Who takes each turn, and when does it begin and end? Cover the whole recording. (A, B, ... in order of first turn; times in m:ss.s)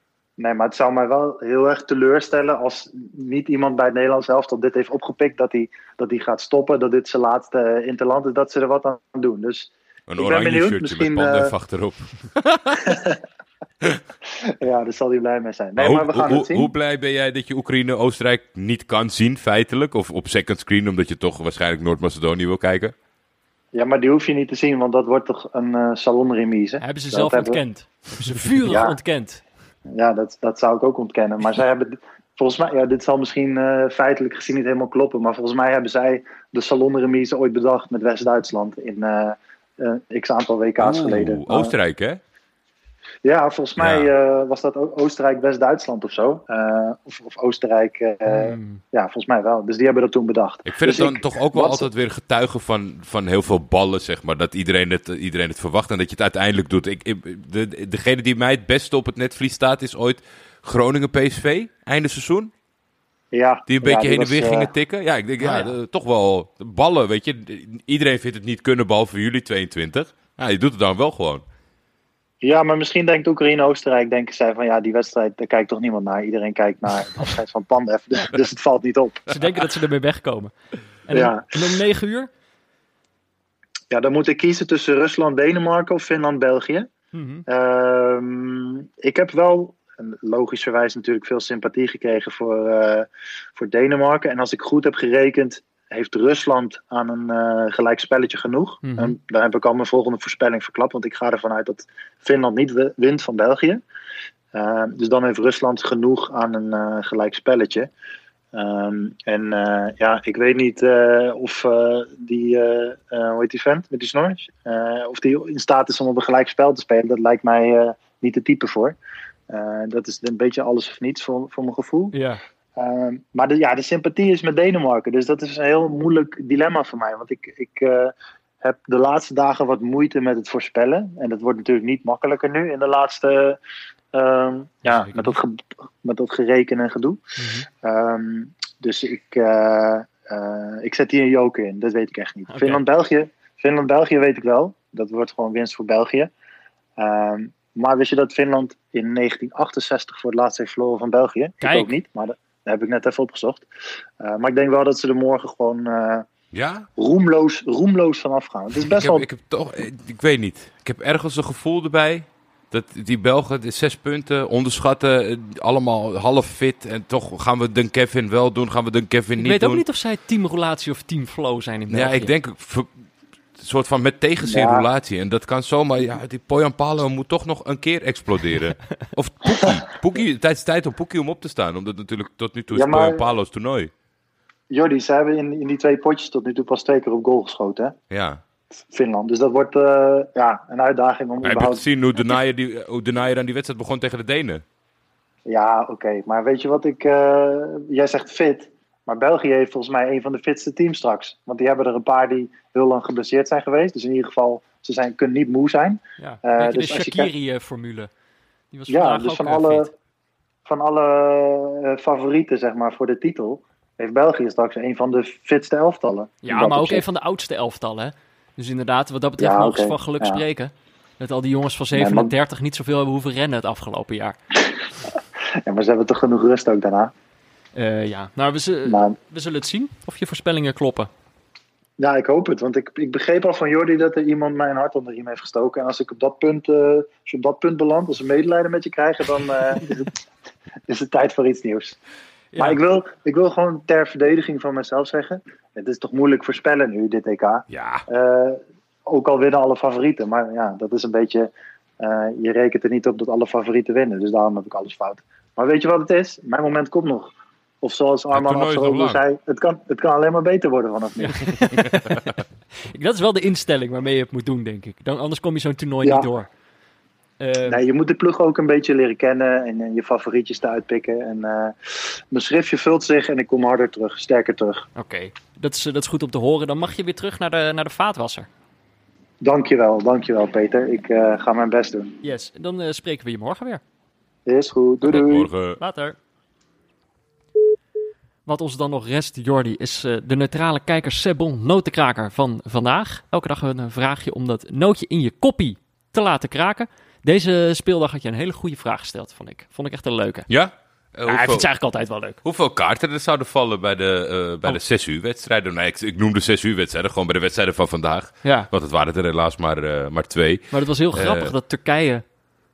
0:00.4-0:11.5 A
0:10.1-0:12.8 B
0:12.8-0:13.2 A
0:14.6-0:16.7 A
0:15.8-0:22.9 B
0:23.7-0:27.6 A
0:26.8-0:29.4 C
0:28.6-0:29.0 A
0:30.0-0:41.7 A
0:40.8-0:42.2 B
0:43.2-0:51.9 A
0:43.8-0:44.1 B
0:48.3-0:48.8 C
0:50.7-1:02.5 B
1:03.3-1:04.7 A
1:03.7-1:11.4 B
1:05.4-1:05.7 C
1:12.4-1:19.3 A
1:19.3-1:20.5 C
1:21.1-1:22.3 C
1:21.1-1:21.5 A
1:23.9-1:26.9 A
1:27.1-1:27.4 C
1:27.5-1:43.8 A
1:38.8-1:39.2 C
1:44.5-1:47.9 A
1:48.5-1:59.0 A
1:59.5-2:02.2 A
2:02.1-2:02.4 C
2:02.8-2:13.6 A
2:14.1-2:17.2 A
2:14.8-2:15.4 C
2:17.4-2:17.7 C
2:17.8-2:26.3 A
2:22.5-2:22.8 C
2:27.0-2:33.7 A
2:31.6-2:32.0 C
2:34.2-2:36.3 A
2:36.5-2:36.9 B
2:37.0-2:39.3 A
2:38.9-2:49.8 B
2:49.4-2:52.3 C
2:51.9-2:52.9 B
2:53.6-3:03.9 B
2:54.4-2:54.9 A
3:02.7-3:03.2 A
3:04.7-3:08.0 A
3:08.1-3:08.4 B
3:08.9-3:11.8 A
3:11.4-3:14.6 B
3:15.5-3:27.3 A
3:26.2-3:28.1 C
3:28.7-3:29.9 C
3:28.9-3:29.9 A
3:30.7-3:37.0 A
3:36.4-3:44.4 C
3:39.4-3:40.4 A
3:42.0-3:42.3 A
3:45.6-3:47.1 A
3:47.8-3:51.1 C
3:48.9-3:49.2 A
3:52.0-4:00.2 A
4:00.9-4:02.0 A
4:02.5-4:02.8 C
4:02.6-4:21.4 A
4:07.7-4:08.0 B
4:18.3-4:19.2 B
4:21.2-4:22.3 C
4:22.9-4:26.5 C
4:26.0-4:26.3 A
4:27.4-4:27.8 C
4:27.7-4:34.9 A
4:35.0-4:38.5 C
4:39.4-4:42.2 A
4:42.2-4:43.8 C
4:44.5-4:45.5 A
4:45.0-4:45.8 B
4:45.8-4:46.2 C
4:48.5-5:00.5 C
5:00.5-5:01.7 B
5:01.2-5:02.4 C
5:02.4-5:11.5 B
5:08.4-5:08.7 C
5:10.7-5:12.2 C